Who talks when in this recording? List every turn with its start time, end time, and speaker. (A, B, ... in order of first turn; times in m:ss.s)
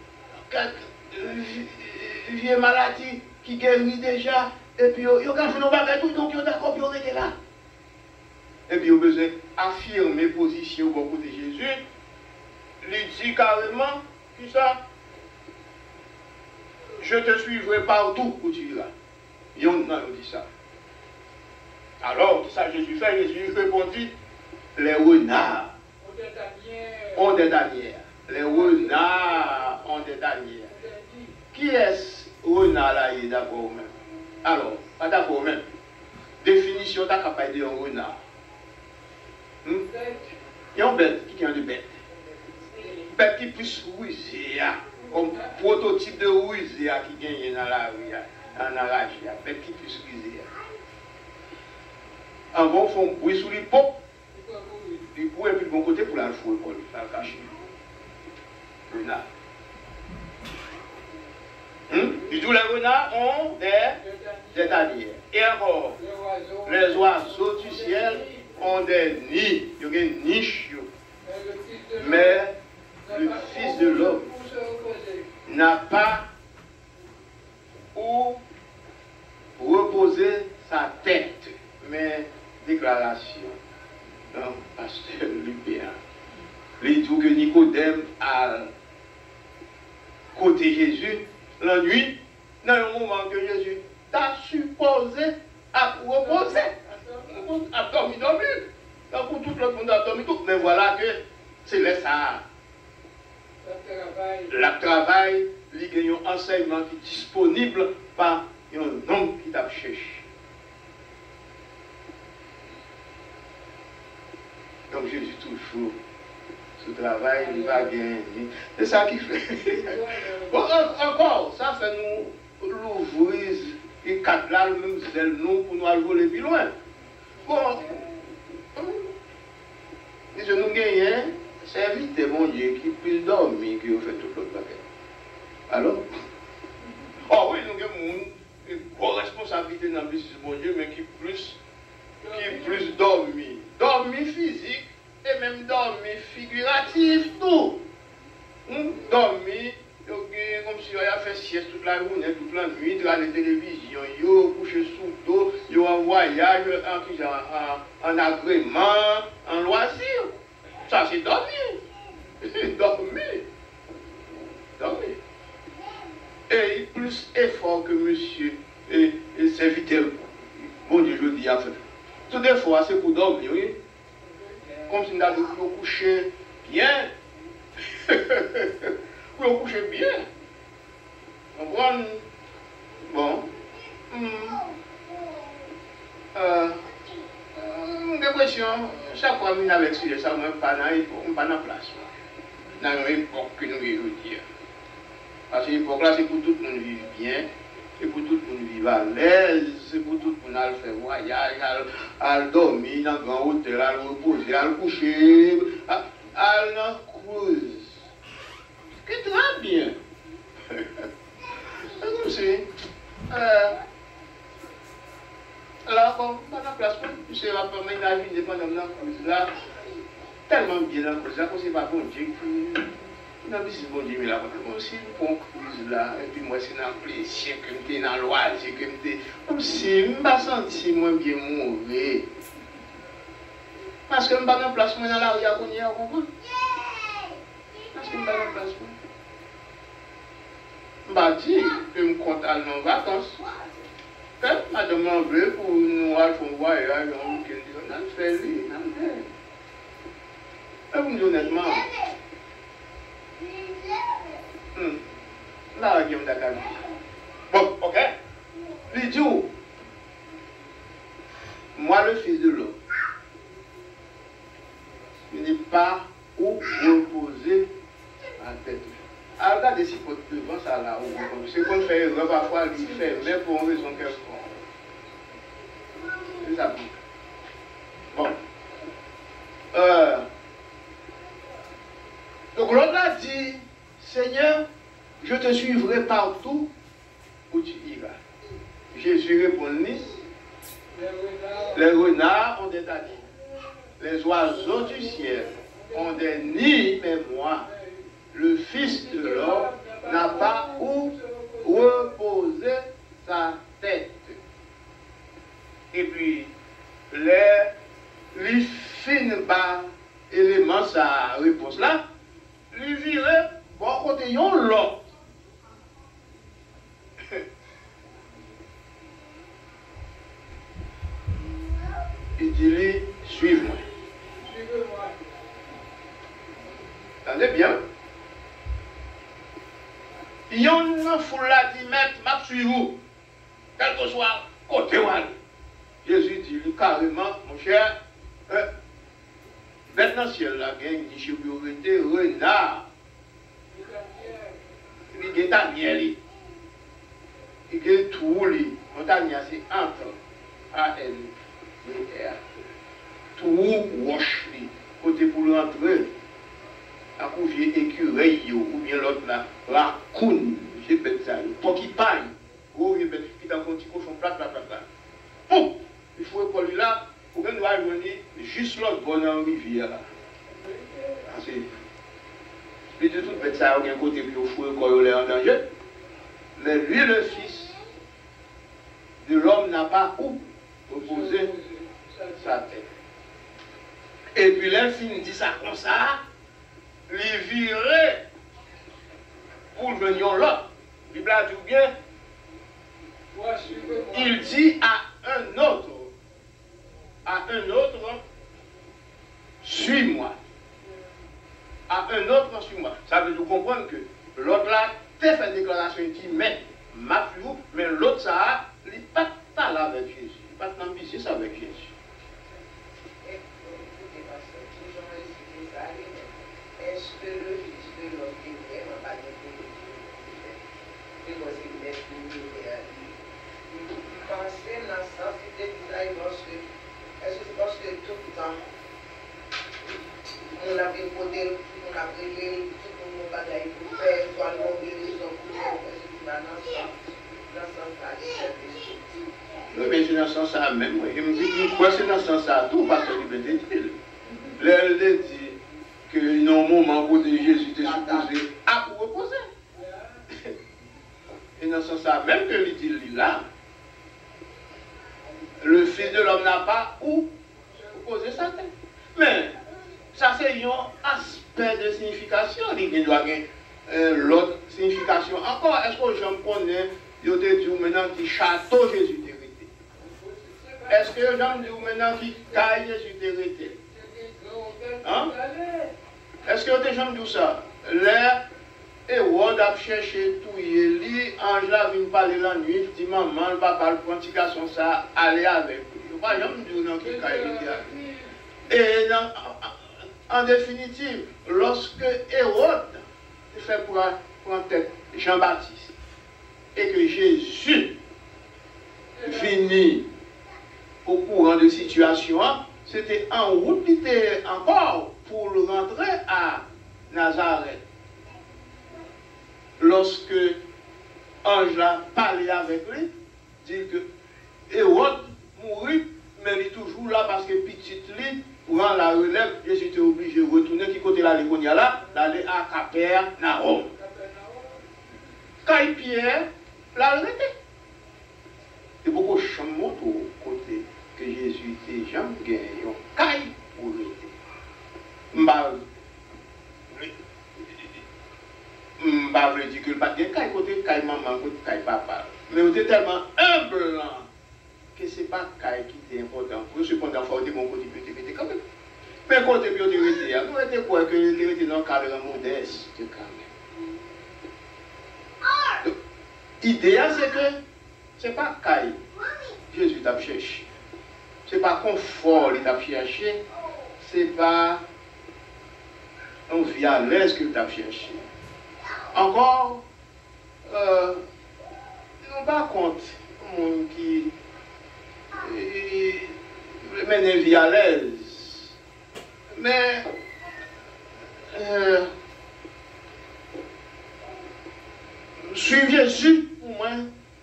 0:00.5-0:07.3 A
0:08.7-0:11.8 A
0:12.8-0:14.8 A
0:17.0-0:18.9 A
0:19.5-0:20.4 A
0:22.0-0:24.1 A
0:24.8-0:25.7 A
0:26.0-0:27.5 B
0:27.1-0:30.7 A
0:28.3-0:29.7 B
0:30.7-0:31.4 B
0:31.5-0:33.9 A
0:34.4-0:35.6 A
0:36.4-0:38.2 A
0:39.8-0:40.3 B
0:40.7-0:41.9 A
0:43.1-0:50.5 A
0:45.0-0:45.5 B
0:52.5-0:54.0 A
0:54.3-0:55.1 B
0:55.1-0:57.5 A
0:58.9-0:59.2 A
1:01.9-1:04.0 A
1:04.0-1:04.9 B
1:04.5-1:06.0 A
1:06.0-1:08.7 B
1:06.6-1:10.9 A
1:11.2-1:12.5 B
1:12.0-1:12.5 A
1:13.0-1:15.3 B
1:13.1-1:14.2 A
1:15.4-1:16.3 A
1:17.9-1:18.4 A
1:19.6-1:23.6 A
1:24.3-1:26.0 A
1:26.8-1:28.7 A
1:30.3-1:36.7 A
1:36.2-1:37.4 B
1:37.3-1:42.4 A
1:43.6-1:44.6 B
1:44.5-1:50.3 A
1:54.9-1:56.0 A
1:56.8-1:59.9 A
1:57.3-1:57.9 B
1:59.6-2:01.0 B
2:00.5-2:06.7 A
2:07.4-2:08.0 A
2:07.5-2:08.1 B
2:08.7-2:09.1 A
2:10.3-2:14.8 A
2:15.7-2:16.0 A
2:17.2-2:21.6 A
2:22.2-2:22.9 B
2:22.3-2:27.8 A
2:28.6-2:40.3 A
2:40.9-2:41.8 A
2:42.4-2:43.4 A
2:44.8-2:45.2 A
2:46.5-2:53.8 A
2:54.2-2:54.8 B
2:54.9-2:57.1 A
2:58.0-3:00.2 A
3:01.5-3:02.2 A
3:03.0-3:03.5 A
3:04.1-3:04.7 A
3:06.3-3:06.8 A
3:07.5-3:12.1 A
3:12.8-3:14.4 A
3:15.5-3:17.5 A
3:18.0-3:28.0 A
3:29.0-3:30.0 A
3:31.7-3:32.7 A
3:33.3-3:33.8 A
3:35.8-3:39.5 A
3:40.5-3:52.2 A
3:54.1-3:56.3 A
3:57.9-3:59.0 A
4:01.0-4:03.4 A
4:04.4-4:09.3 A
4:10.9-4:11.9 A
4:14.7-4:15.0 A
4:15.7-4:16.8 A
4:17.5-4:18.1 A
4:18.9-4:19.5 A
4:21.7-4:22.8 A
4:25.3-4:27.7 A
4:28.4-4:34.6 A
4:36.3-4:36.9 A
4:39.7-4:40.2 A
4:42.5-4:44.6 A
4:45.2-4:46.7 A
4:47.5-4:48.2 A
4:48.9-4:50.1 A
4:50.9-4:51.9 B
4:51.7-4:53.2 A
4:54.0-4:57.7 A
4:54.5-4:56.4 B
4:57.6-4:58.1 B
4:58.3-5:04.4 A
4:58.8-5:02.2 B
5:05.9-5:06.5 A
5:07.1-5:07.7 A
5:08.3-5:12.0 A
5:12.7-5:15.0 A
5:22.4-5:23.8 A
5:24.4-5:25.2 B
5:27.2-5:27.8 A
5:30.5-5:33.0 A
5:33.8-5:35.3 A
5:36.0-5:37.9 A
5:39.9-5:42.8 A
5:43.7-5:44.6 B
5:45.1-5:46.2 A
5:47.7-5:50.2 A
5:50.7-5:51.3 A
5:51.8-5:52.4 A
5:53.4-5:56.1 A
5:57.2-6:04.8 A
6:05.5-6:10.0 A
6:10.5-6:11.3 B
6:11.3-6:11.6 A
6:13.0-6:15.6 A
6:16.6-6:17.8 A
6:19.2-6:21.5 A
6:20.9-6:22.6 B
6:22.4-6:22.9 A
6:24.3-6:26.2 A
6:27.1-6:28.2 A
6:29.7-6:31.9 A
6:33.3-6:34.6 B
6:34.1-6:36.1 A
6:37.2-6:38.2 A
6:39.6-6:40.4 A
6:41.9-6:51.9 A
6:53.2-7:00.6 C
7:01.2-7:03.2 C
7:03.7-7:06.7 C
7:07.2-7:08.6 C
7:10.5-7:19.2 C
7:19.7-7:24.0 A
7:24.6-7:25.6 A
7:26.1-7:29.5 A
7:27.8-7:28.3 C
7:29.7-7:30.2 B
7:31.6-7:33.4 A
7:35.6-7:37.3 A
7:37.9-7:39.6 A
7:40.1-7:49.7 A
7:50.0-7:52.7 B
7:50.9-7:53.8 A
7:53.9-7:55.9 B
7:55.0-7:55.3 A
7:56.4-7:58.4 A
7:59.1-8:07.9 A
8:07.0-8:08.3 B
8:08.7-8:09.7 A
8:10.3-8:15.9 A
8:16.7-8:18.0 A
8:19.1-8:19.8 B
8:19.2-8:20.0 A
8:21.0-8:27.8 A
8:29.8-8:30.6 A
8:31.4-8:33.1 A
8:33.6-8:34.0 A
8:34.7-8:43.9 A
8:43.9-8:44.9 B
8:45.6-8:47.5 A
8:49.0-8:54.3 A
8:55.3-8:55.8 A
8:57.7-8:58.0 A
8:59.0-9:04.3 A
9:05.0-9:08.6 A
9:09.3-9:13.5 A
9:16.6-9:17.6 A
9:18.2-9:19.0 A
9:19.7-9:20.7 A
9:21.4-9:23.4 A
9:24.0-9:24.8 A
9:26.5-9:28.2 A
9:29.1-9:29.8 A
9:30.6-9:31.2 A
9:32.2-9:34.3 A
9:35.4-9:38.7 A
9:39.5-9:40.0 A
9:41.5-9:42.1 A
9:45.4-9:47.1 A